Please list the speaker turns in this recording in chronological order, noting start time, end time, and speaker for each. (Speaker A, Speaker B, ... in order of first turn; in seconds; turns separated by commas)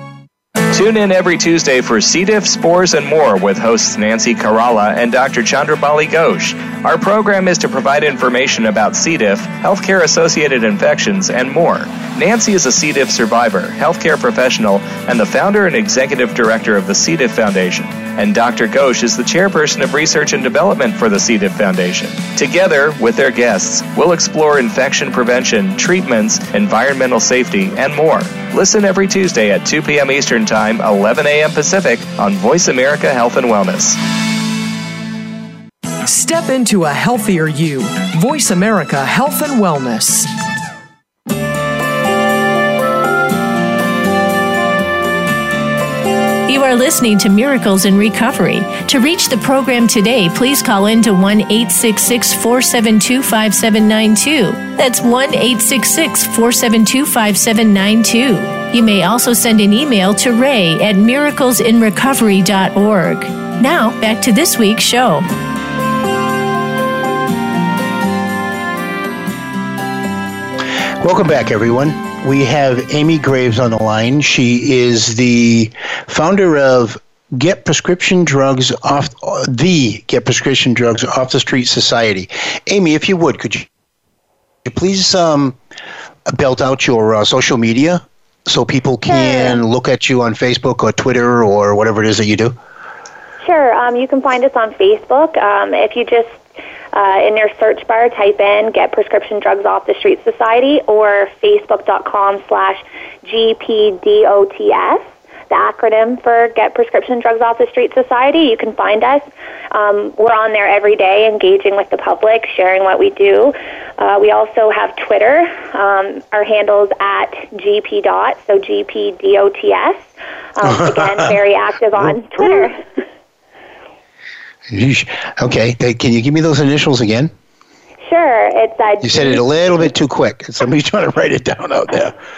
Speaker A: 0.7-34.0, Speaker B: 36.0-40.3, Speaker C: 46.5-65.3, Speaker D: 71.0-83.7, Speaker D: 84.6-85.6, Speaker D: 86.3-92.6, Speaker E: 89.1-89.6, Speaker E: 93.4-122.8, Speaker D: 120.6-121.4, Speaker D: 122.4-122.6, Speaker D: 124.7-127.3, Speaker E: 128.1-129.4, Speaker D: 129.0-132.2